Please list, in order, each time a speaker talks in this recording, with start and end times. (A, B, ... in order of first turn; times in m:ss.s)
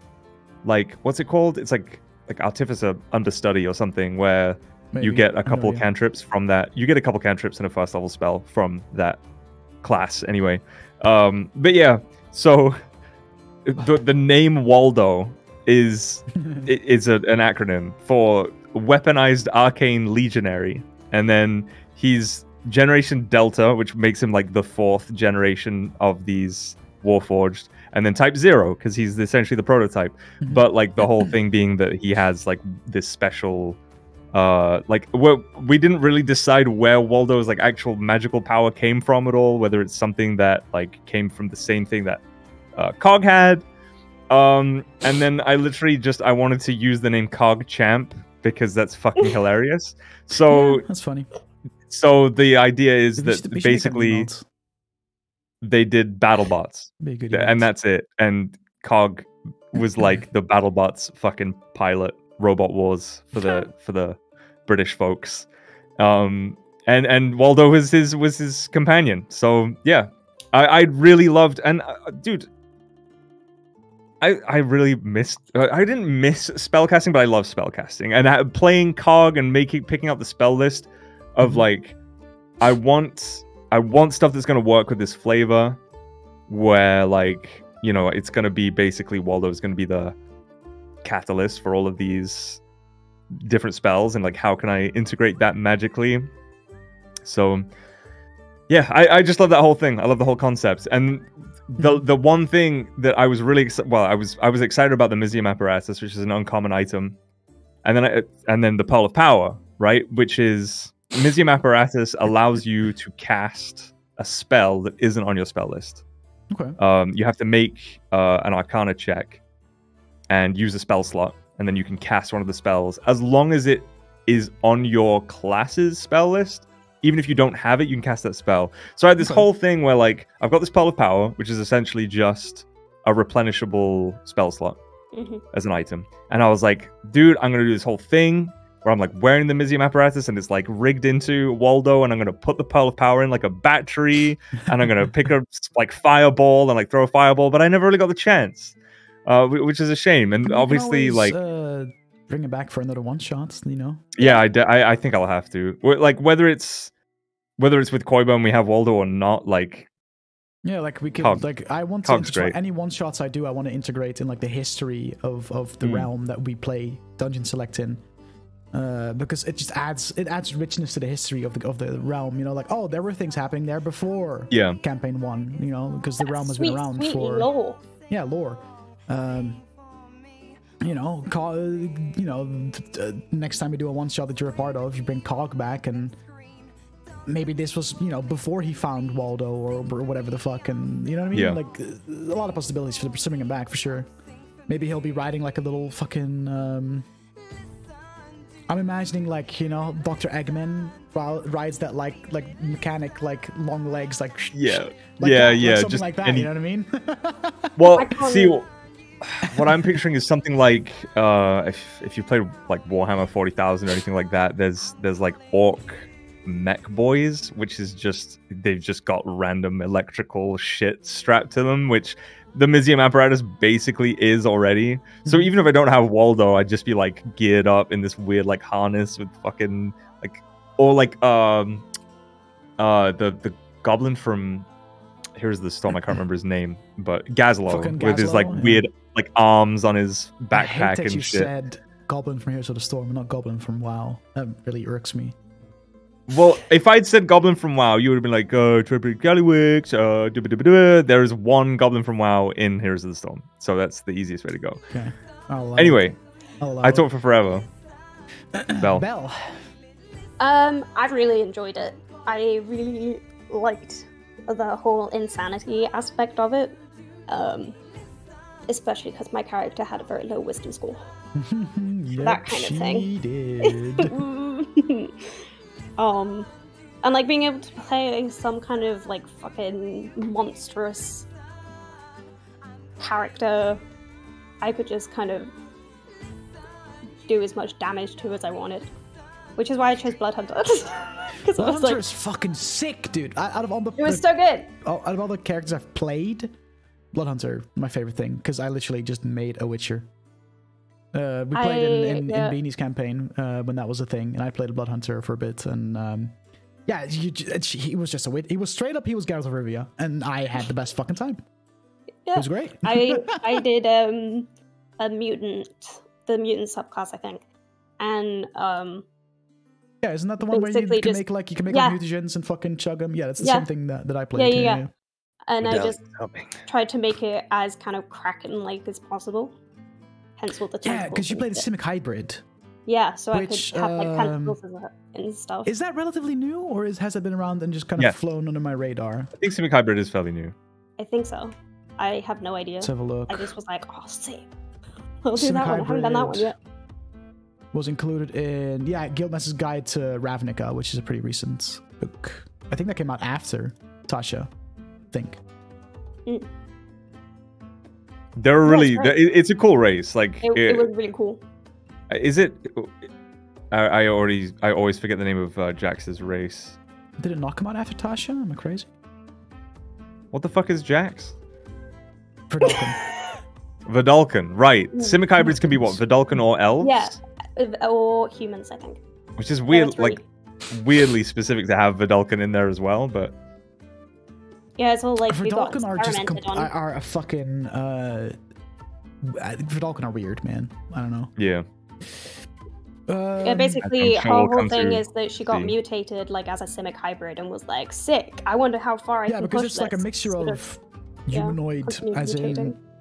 0:00.6-0:09.2 A
0:04.9-0:05.8 B
0:09.8-0:12.8 A
0:13.6-0:33.8 A
0:16.4-0:16.7 B
0:34.3-0:42.2 A
0:42.8-0:43.7 A
0:44.3-0:50.8 A
0:50.5-0:51.3 B
0:51.9-0:54.3 A
0:53.2-0:54.4 B
0:55.6-1:12.5 A
0:57.0-0:57.7 B
1:14.2-1:22.0 A
1:22.6-1:25.8 A
1:26.5-1:30.2 A
1:31.0-1:32.6 A
1:33.3-1:36.3 A
1:37.2-1:37.7 A
1:38.7-1:47.2 A
1:47.8-1:56.0 A
1:56.5-1:56.8 B
1:56.8-1:59.4 A
2:00.3-2:14.8 A
2:09.2-2:09.5 B
2:15.1-2:15.4 C
2:15.5-2:31.4 A
2:30.4-2:34.1 B
2:34.2-2:36.9 A
2:37.6-2:39.9 A
2:40.6-2:48.0 B
2:41.2-2:41.4 A
2:42.0-2:42.6 A
2:45.8-2:46.1 A
2:48.7-2:57.5 B
2:54.5-2:54.8 A
2:56.2-2:57.8 C
2:58.1-2:59.6 B
3:00.8-3:06.2 B
3:07.3-3:14.1 B
3:11.3-3:11.6 A
3:14.7-3:17.1 B
3:18.7-3:27.8 B
3:24.5-3:26.5 A
3:27.8-3:28.7 A
3:27.9-3:28.6 C
3:29.2-3:51.9 A
3:29.4-3:30.0 B
3:45.2-3:45.5 B
3:52.8-3:54.7 A
3:55.4-4:01.5 A
3:57.7-3:58.9 B
4:00.5-4:05.4 B
4:06.3-4:14.8 A
4:14.9-4:16.1 B
4:15.8-4:16.2 A
4:16.6-4:17.1 B
4:16.8-4:17.7 A
4:18.5-4:19.6 B
4:18.8-4:19.1 A
4:20.4-4:27.8 C
4:28.7-4:31.1 C
4:31.4-4:34.2 B
4:32.2-4:33.1 C
4:33.6-4:35.4 C
4:36.0-4:36.5 C
4:37.0-4:41.3 C
4:43.0-4:43.8 C
4:44.6-4:45.5 C
4:47.2-4:48.9 C
4:49.6-4:52.0 C
4:51.5-4:54.3 B
4:54.0-4:54.7 C
4:54.8-4:56.5 B
4:57.1-5:00.1 B
5:01.1-5:06.4 B
5:01.5-5:02.6 C
5:06.9-5:11.4 B
5:12.2-5:17.4 C
5:12.4-5:13.6 B
5:18.0-5:19.0 C
5:20.0-5:24.9 B
5:20.5-5:22.0 C
5:23.4-5:23.7 C
5:24.4-5:24.8 C
5:25.5-5:26.0 C
5:25.6-5:26.6 A
5:26.7-5:29.6 C
5:30.4-5:31.7 C
5:30.8-5:32.4 B
5:32.9-5:35.7 C
5:33.3-5:34.6 B
5:35.6-5:39.3 B
5:39.4-5:40.6 A
5:41.0-5:44.5 C
5:42.8-5:43.5 B
5:45.2-5:46.6 C
5:45.4-5:46.5 B
5:47.7-5:54.5 B
5:55.1-5:55.4 B
5:58.4-6:00.9 A
5:58.6-5:59.2 C
6:00.4-6:01.4 C
6:02.1-6:03.1 A
6:03.7-6:06.8 A
6:07.2-6:08.9 B
6:10.3-6:11.4 A
6:12.5-6:13.0 B
6:13.9-6:17.2 A
6:14.9-6:15.2 C
6:15.4-6:16.0 B
6:16.8-6:19.0 C
6:19.4-6:20.2 A
6:19.7-6:20.2 C
6:20.7-6:23.4 A
6:24.8-6:26.7 C
6:25.3-6:28.4 B
6:29.2-6:31.3 B
6:31.4-6:31.7 A
6:33.1-6:33.8 B
6:33.4-6:40.6 C
6:33.8-6:35.7 A
6:39.3-6:42.8 B
6:41.3-6:42.8 C